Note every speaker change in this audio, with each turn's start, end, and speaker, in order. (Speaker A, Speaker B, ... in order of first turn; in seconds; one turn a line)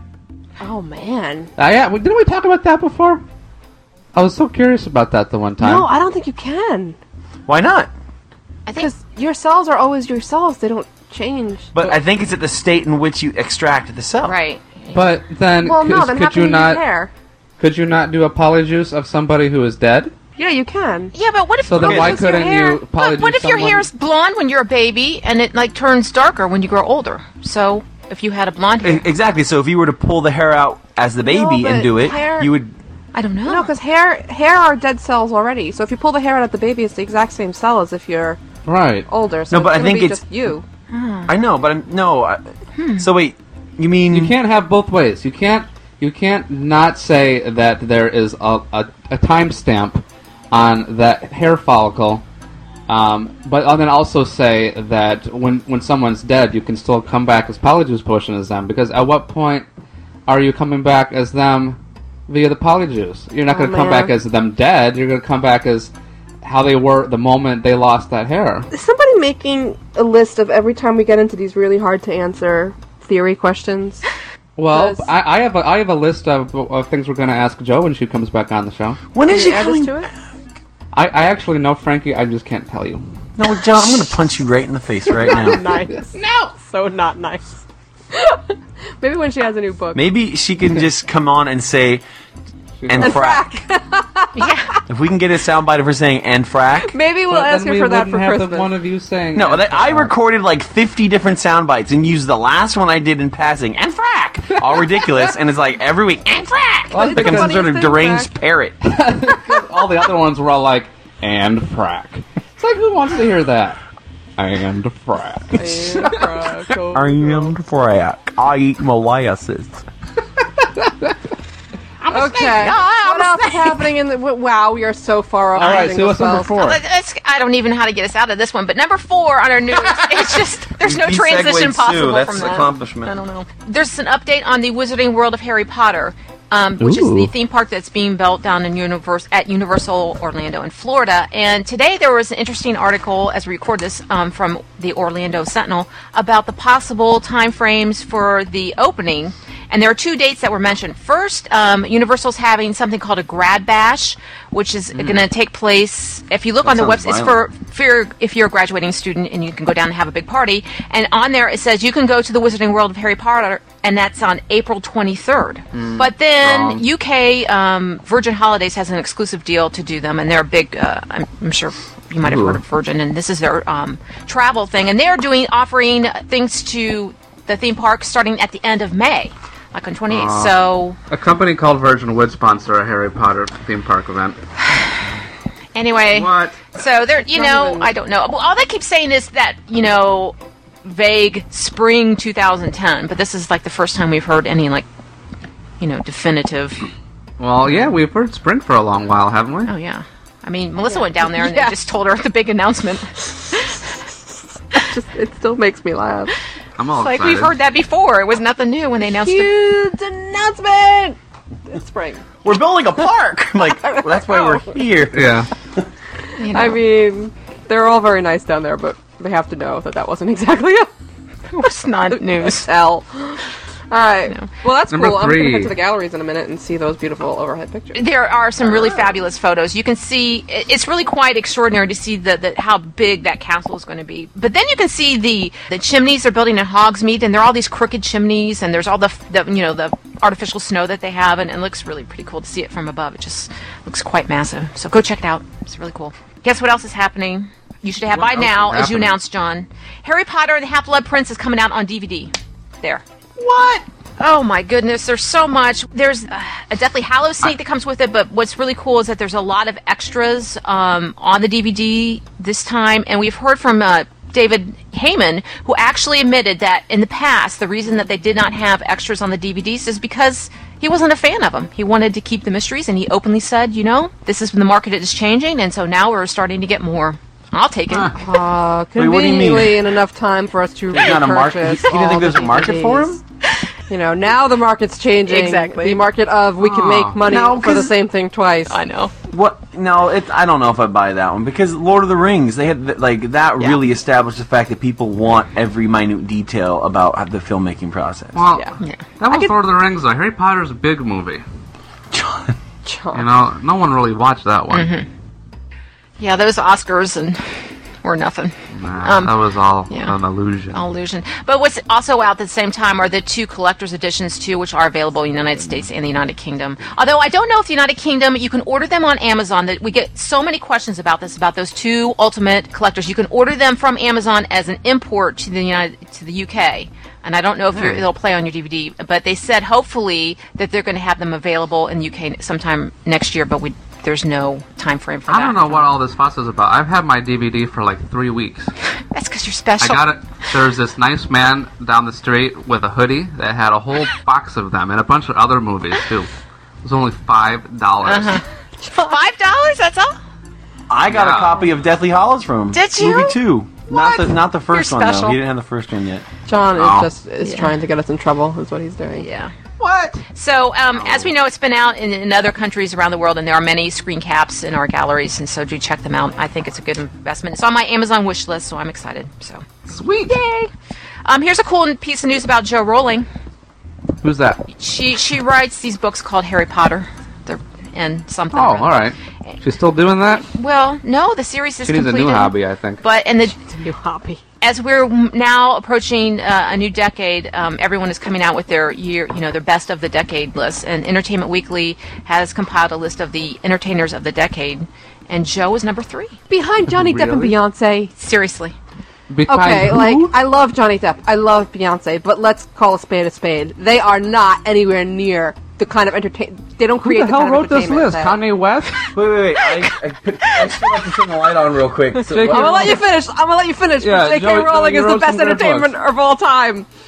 Speaker A: 0.6-1.5
Speaker B: 1.6-3.2
Speaker B: 4.1-5.9
Speaker A: 5.6-7.0
Speaker C: 7.5-7.9
Speaker D: 8.7-8.9
Speaker A: 8.8-11.7
Speaker C: 11.7-14.3
Speaker D: 14.2-15.0
Speaker B: 14.9-16.8
Speaker A: 15.6-17.1
Speaker B: 17.6-20.1
Speaker A: 20.4-21.1
Speaker D: 21.1-29.1
Speaker B: 21.6-23.9
Speaker C: 21.8-22.2
Speaker A: 21.8-22.8
Speaker C: 28.8-32.7
Speaker A: 31.2-32.5
Speaker D: 33.1-33.7
Speaker A: 33.5-38.4
Speaker B: 38.6-39.1
Speaker A: 39.1-40.6
Speaker C: 39.5-40.2
Speaker D: 40.9-41.3
Speaker C: 41.3-42.4
Speaker D: 42.8-43.0
Speaker C: 43.0-44.4
Speaker B: 44.1-52.2
Speaker B: 52.9-59.7
Speaker B: 60.3-65.9
Speaker A: 63.5-64.1
Speaker B: 66.4-68.7
Speaker A: 68.7-74.0
Speaker B: 74.6-79.0
Speaker A: 74.7-75.0
Speaker C: 79.1-80.1
Speaker A: 79.2-80.1
Speaker B: 80.9-83.0
Speaker C: 83.4-85.6
Speaker A: 85.2-87.6
Speaker B: 86.2-86.5
Speaker A: 88.1-90.0
Speaker C: 89.9-92.0
Speaker B: 92.8-93.2
Speaker C: 92.9-93.4
Speaker A: 93.0-94.8
Speaker D: 94.3-94.7
Speaker C: 94.9-96.9
Speaker A: 96.8-98.7
Speaker B: 97.3-100.1
Speaker C: 99.3-108.8
Speaker B: 106.9-107.6
Speaker A: 107.0-108.3
Speaker B: 108.8-113.8
Speaker B: 114.4-116.2
Speaker A: 115.5-117.5
Speaker C: 116.9-119.8
Speaker B: 122.0-122.8
Speaker A: 122.1-126.5
Speaker D: 122.6-123.5
Speaker B: 125.5-126.8
Speaker D: 126.6-181.0
Speaker C: 130.8-133.1
Speaker B: 136.8-137.3
Speaker C: 156.6-157.4
Speaker B: 165.7-166.8
Speaker B: 172.2-172.6
Speaker B: 180.1-180.6
Speaker B: 181.1-184.4
Speaker D: 185.7-194.8
Speaker B: 186.1-186.6
Speaker A: 187.3-187.9
Speaker D: 195.8-196.8
Speaker B: 197.4-199.7
Speaker D: 199.7-203.7
Speaker A: 200.8-201.8
Speaker A: 204.7-206.3
Speaker B: 206.8-207.5
Speaker D: 207.0-209.6
Speaker A: 209.0-211.2
Speaker A: 211.7-212.2
Speaker C: 212.4-215.3
Speaker A: 213.7-214.7
Speaker B: 215.1-215.5
Speaker D: 216.4-216.8
Speaker A: 216.5-220.9
Speaker D: 221.5-222.7
Speaker A: 222.1-229.2
Speaker B: 224.9-225.7
Speaker D: 227.9-253.0
Speaker B: 248.1-249.2
Speaker D: 254.2-278.1
Speaker B: 277.9-278.1
Speaker A: 278.1-283.2
Speaker C: 278.9-279.8
Speaker C: 280.9-283.2
Speaker A: 283.9-288.8
Speaker D: 285.2-286.0
Speaker B: 286.6-287.2
Speaker C: 287.2-288.0
Speaker D: 288.7-289.1
Speaker C: 289.3-298.4
Speaker B: 298.3-301.4
Speaker A: 299.2-299.5
Speaker C: 302.1-302.5
Speaker A: 302.8-303.2
Speaker B: 303.1-304.9
Speaker D: 304.7-305.1
Speaker D: 306.2-307.4
Speaker D: 308.0-309.3
Speaker B: 308.7-310.8
Speaker D: 310.7-335.9
Speaker B: 327.7-328.0
Speaker B: 335.3-338.7
Speaker D: 339.1-340.1
Speaker B: 339.8-346.3
Speaker B: 346.8-348.4
Speaker D: 348.0-348.4
Speaker A: 348.8-349.1
Speaker D: 348.9-350.2
Speaker C: 350.9-356.2
Speaker B: 351.1-351.7
Speaker D: 352.7-353.4
Speaker D: 353.9-355.4
Speaker A: 356.5-359.2
Speaker B: 356.7-357.1
Speaker D: 357.4-357.7
Speaker D: 359.2-359.5
Speaker B: 359.8-360.2
Speaker D: 360.3-369.6
Speaker B: 369.9-370.4
Speaker D: 370.3-370.7
Speaker D: 371.2-373.3
Speaker B: 374.2-374.6
Speaker D: 374.7-379.5
Speaker B: 378.5-380.4
Speaker D: 380.4-383.6
Speaker B: 381.8-383.0
Speaker A: 383.7-384.4
Speaker D: 384.6-396.4
Speaker A: 396.5-398.1
Speaker B: 396.9-397.6
Speaker D: 398.1-398.7
Speaker B: 399.3-400.3
Speaker A: 399.5-408.4
Speaker B: 407.0-409.1
Speaker C: 409.1-413.0
Speaker B: 412.3-413.0
Speaker A: 412.3-416.9
Speaker B: 414.0-415.9